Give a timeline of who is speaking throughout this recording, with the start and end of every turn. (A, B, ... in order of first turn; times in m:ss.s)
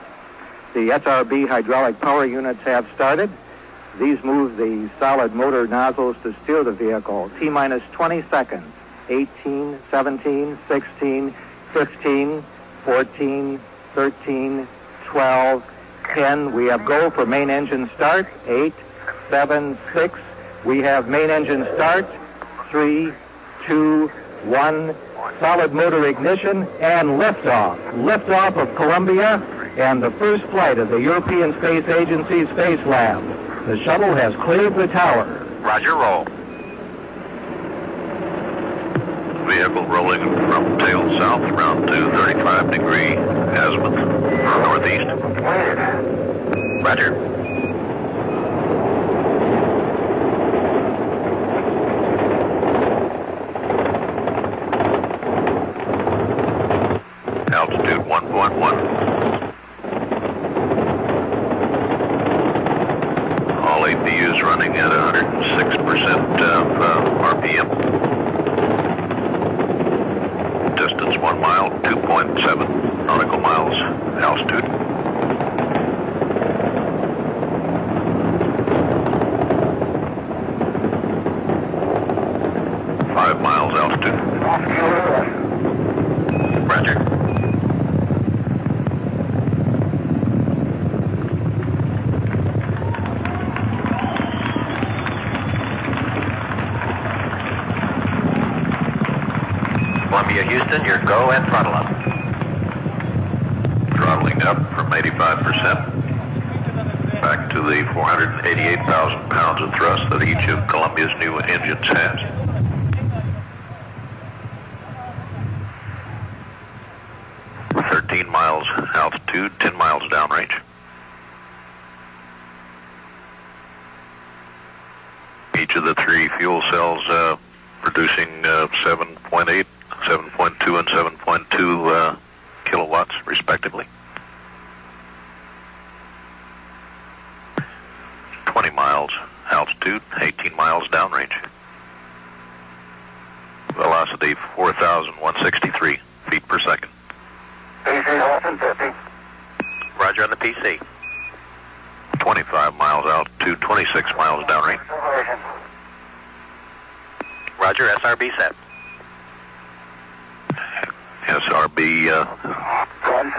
0:00.7-0:03.3 A
0:03.9-0:35.5 A
0:35.6-0:36.3 B
0:39.4-0:45.2 C
0:46.8-0:47.2 B
0:57.5-0:58.9 C
1:03.6-1:07.7 C
1:10.8-1:14.7 C
1:23.1-1:24.4 C
1:26.7-1:27.0 B
1:40.1-1:42.0 B
1:43.9-1:45.9 C
1:47.2-1:52.3 C
1:57.7-2:00.6 C
2:05.5-2:13.9 C
2:18.4-2:21.4 C
2:23.7-2:26.9 C
2:28.4-2:28.8 B
2:30.0-2:30.8 B
2:32.2-2:34.8 C
2:37.6-2:38.6 B
2:40.8-2:42.7 C